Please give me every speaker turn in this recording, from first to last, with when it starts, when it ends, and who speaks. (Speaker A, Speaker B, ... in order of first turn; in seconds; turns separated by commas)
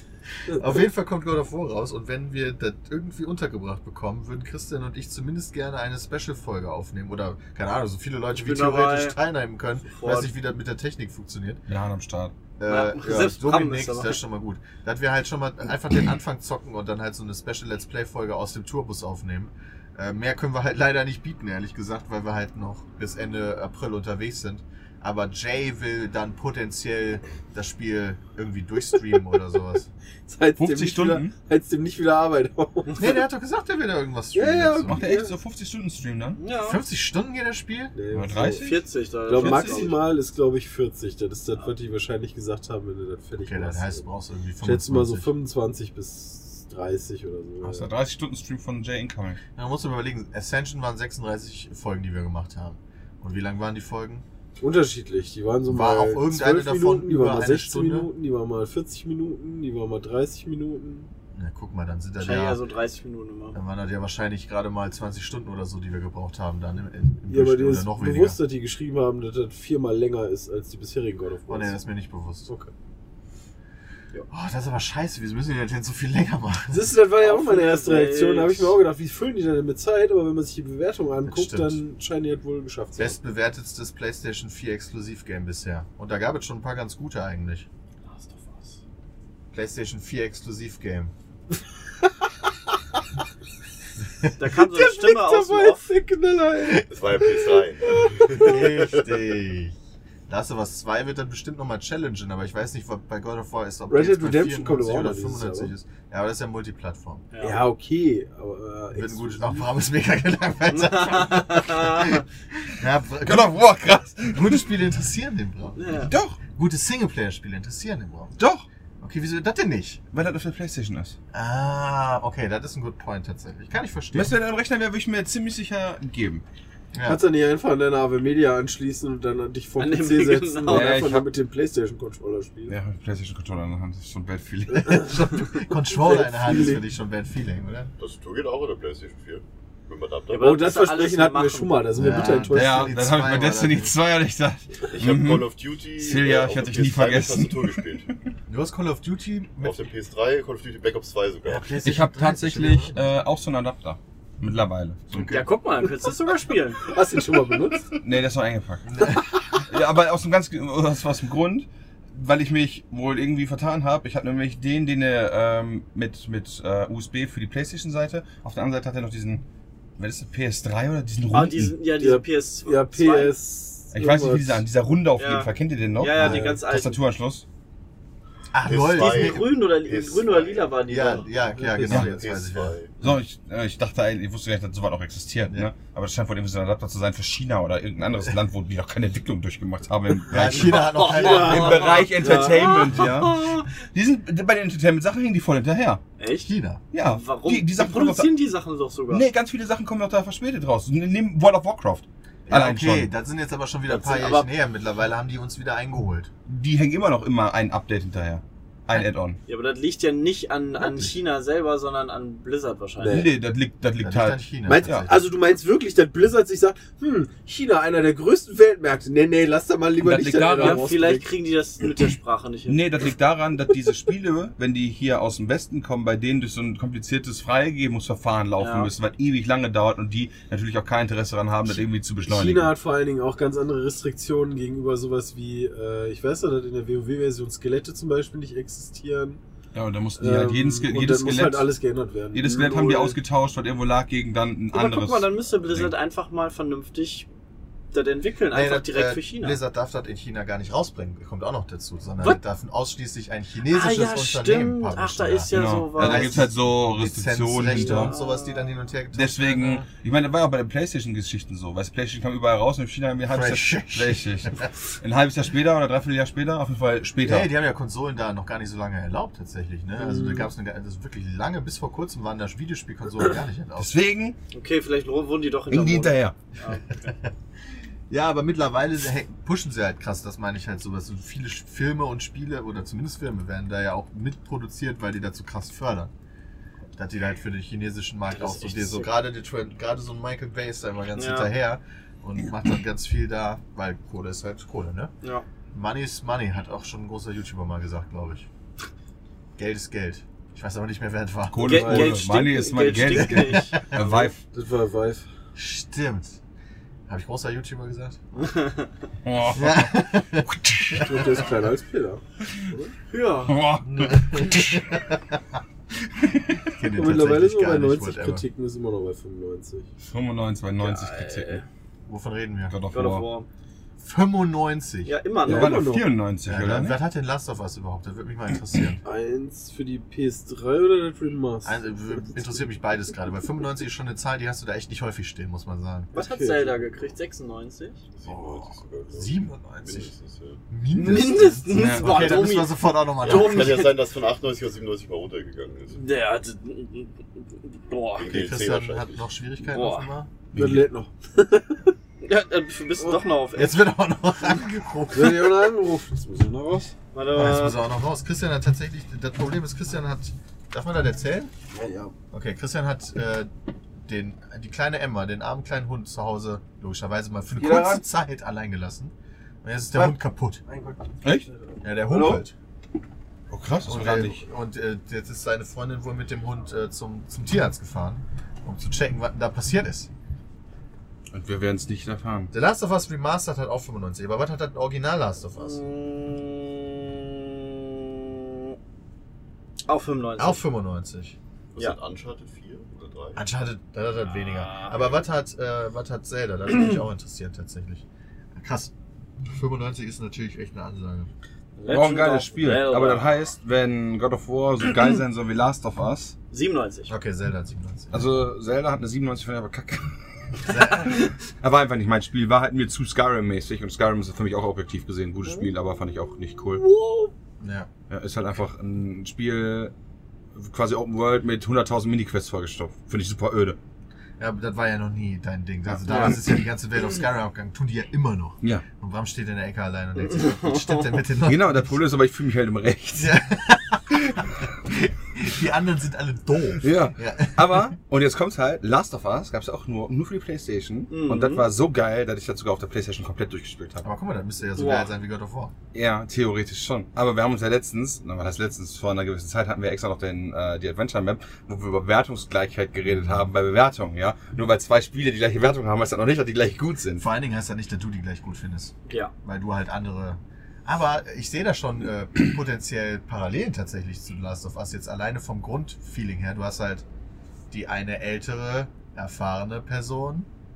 Speaker A: 0.5-11.6, Speaker B: 8.3-9.2, Speaker B: 9.9-10.3, Speaker C: 11.7-12.3, Speaker A: 12.6-29.9, Speaker B: 12.7-14.2, Speaker D: 30.3-33.0, Speaker C: 30.6-31.3, Speaker A: 33.0-35.0, Speaker D: 34.3-35.3, Speaker C: 34.9-36.4, Speaker B: 36.4-36.8, Speaker A: 36.6-37.9, Speaker D: 37.9-38.7, Speaker C: 38.1-38.8, Speaker B: 38.6-40.0, Speaker D: 39.2-44.0, Speaker C: 39.4-39.8, Speaker A: 43.4-45.3, Speaker D: 44.6-47.9, Speaker C: 47.6-49.4, Speaker A: 49.5-54.2, Speaker D: 54.6-61.1, Speaker A: 55.7-58.1, Speaker A: 61.3-62.6, Speaker B: 62.2-63.6, Speaker A: 63.5-68.4, Speaker D: 67.3-71.8, Speaker A: 71.5-72.5, Speaker D: 72.5-72.7, Speaker A: 74.3-76.9, Speaker D: 76.7-83.2, Speaker B: 77.2-78.7, Speaker A: 81.2-81.8, Speaker A: 83.0-87.7, Speaker B: 88.1-88.8, Speaker A: 89.5-91.1, Speaker B: 94.4-95.9, Speaker D: 94.5-97.4, Speaker E: 96.9-99.2, Speaker A: 98.3-99.7, Speaker A: 100.3-107.3, Speaker D: 103.9-105.7, Speaker B: 107.3-107.6, Speaker D: 107.4-109.7, Speaker A: 108.9-118.3, Speaker B: 110.7-112.2, Speaker C: 113.2-114.7, Speaker B: 115.8-116.1, Speaker C: 116.1-116.4, Speaker C: 118.4-118.6, Speaker A: 119.0-120.0, Speaker C: 120.1-121.2, Speaker A: 121.3-124.3, Speaker C: 124.1-126.4, Speaker A: 126.9-127.2, Speaker D: 127.0-132.8, Speaker B: 129.8-131.0, Speaker C: 130.7-131.3, Speaker C: 132.7-135.2, Speaker D: 134.7-136.8, Speaker A: 134.9-137.9, Speaker E: 138.0-140.7, Speaker B: 140.3-142.0, Speaker D: 140.4-142.9, Speaker A: 141.9-143.9, Speaker C: 142.5-147.8, Speaker E: 144.9-148.1, Speaker A: 148.5-149.9, Speaker E: 149.6-151.7, Speaker A: 151.4-153.1, Speaker C: 151.8-155.3, Speaker A: 155.1-155.5, Speaker B: 155.2-156.8, Speaker D: 156.9-157.9, Speaker C: 157.9-169.4, Speaker C: 170.0-171.8, Speaker B: 171.3-173.3, Speaker D: 172.0-174.6, Speaker C: 173.9-177.4, Speaker B: 175.2-177.0, Speaker D: 176.2-176.6, Speaker A: 178.5-179.5, Speaker E: 178.6-180.7, Speaker B: 178.9-181.3, Speaker A: 180.9-182.8, Speaker D: 181.5-182.1, Speaker E: 181.9-182.9, Speaker C: 183.0-196.0, Speaker A: 190.3-192.0, Speaker B: 190.7-193.7, Speaker D: 191.2-192.7, Speaker B: 196.2-199.2, Speaker A: 196.4-196.8, Speaker C: 196.9-198.3, Speaker C: 199.1-203.1, Speaker A: 202.5-206.3, Speaker B: 203.9-204.5, Speaker C: 206.5-209.4, Speaker B: 209.5-213.2, Speaker A: 210.8-211.2, Speaker D: 213.0-213.3, Speaker C: 213.0-215.1, Speaker A: 214.0-215.2, Speaker D: 214.7-221.3, Speaker C: 220.0-220.8, Speaker B: 220.3-222.8, Speaker C: 222.7-232.7, Speaker B: 228.6-228.9, Speaker D: 232.3-239.4, Speaker C: 239.7-241.7, Speaker D: 240.2-243.2, Speaker C: 242.3-245.9, Speaker B: 244.7-247.3, Speaker B: 247.9-249.6, Speaker A: 248.5-259.8, Speaker B: 253.7-256.5, Speaker C: 255.5-258.1, Speaker B: 257.7-258.7, Speaker C: 259.1-267.5, Speaker A: 263.3-264.7, Speaker A: 267.2-274.0, Speaker D: 270.0-270.5, Speaker C: 273.8-274.4, Speaker B: 274.5-277.1, Speaker C: 275.7-276.4, Speaker A: 278.1-286.1, Speaker A: 287.0-295.1, Speaker B: 288.3-289.1, Speaker B: 291.1-291.5, Speaker A: 295.7-298.5, Speaker A: 299.6-301.9, Speaker C: 301.5-304.4, Speaker B: 301.6-304.3, Speaker D: 301.7-302.1, Speaker A: 303.0-304.1, Speaker D: 304.5-305.2, Speaker A: 305.5-306.4, Speaker A: 307.1-308.2, Speaker B: 308.4-308.8, Speaker C: 309.2-311.2, Speaker A: 309.5-311.1, Speaker D: 311.0-312.9, Speaker B: 313.1-313.7, Speaker C: 313.5-314.9, Speaker A: 313.9-315.4, Speaker A: 316.7-318.4, Speaker D: 316.9-319.9, Speaker C: 320.0-321.6, Speaker B: 320.8-321.6, Speaker A: 322.1-322.7, Speaker C: 322.7-323.3, Speaker B: 322.9-323.5, Speaker A: 324.0-325.1, Speaker B: 325.0-325.9, Speaker D: 325.4-326.1, Speaker C: 325.4-327.0, Speaker A: 326.4-329.0, Speaker D: 329.0-332.6, Speaker A: 331.6-336.1, Speaker B: 336.1-338.0, Speaker D: 336.1-336.9, Speaker E: 338.1-340.6, Speaker A: 338.3-340.1, Speaker A: 340.7-343.8, Speaker B: 340.9-344.0, Speaker C: 341.7-342.4, Speaker E: 343.2-346.0, Speaker B: 345.9-348.4, Speaker E: 348.1-349.2, Speaker A: 348.2-350.3, Speaker B: 349.6-350.1, Speaker C: 350.5-350.9, Speaker D: 350.5-351.9, Speaker B: 352.2-353.7, Speaker A: 353.5-355.7, Speaker D: 355.1-356.9, Speaker B: 357.1-357.8, Speaker A: 357.3-361.5, Speaker D: 361.7-362.1, Speaker A: 362.3-370.6, Speaker D: 367.6-368.0, Speaker D: 369.9-372.4, Speaker A: 371.8-372.5, Speaker C: 373.5-374.4, Speaker A: 373.8-380.1, Speaker C: 381.3-382.5, Speaker A: 382.5-385.8, Speaker B: 385.6-388.7, Speaker B: 389.9-390.6, Speaker A: 390.4-391.4, Speaker E: 391.7-393.4, Speaker A: 393.3-398.9, Speaker B: 394.2-395.2, Speaker A: 399.5-401.3, Speaker B: 401.8-403.3, Speaker C: 401.9-406.3, Speaker B: 406.5-407.1, Speaker A: 407.1-408.3, Speaker C: 408.1-416.8, Speaker A: 410.7-411.1, Speaker B: 416.8-417.3, Speaker A: 417.6-417.9, Speaker C: 418.1-419.9, Speaker C: 420.5-423.8, Speaker A: 424.4-432.0, Speaker C: 425.9-426.5, Speaker B: 426.1-426.4, Speaker B: 430.3-431.2, Speaker C: 431.4-433.4, Speaker A: 433.1-437.9, Speaker C: 436.8-444.1, Speaker B: 441.1-441.7, Speaker A: 444.0-445.7, Speaker B: 444.8-445.1, Speaker C: 445.9-457.3, Speaker A: 457.2-467.0, Speaker B: 459.1-459.3, Speaker A: 467.7-470.5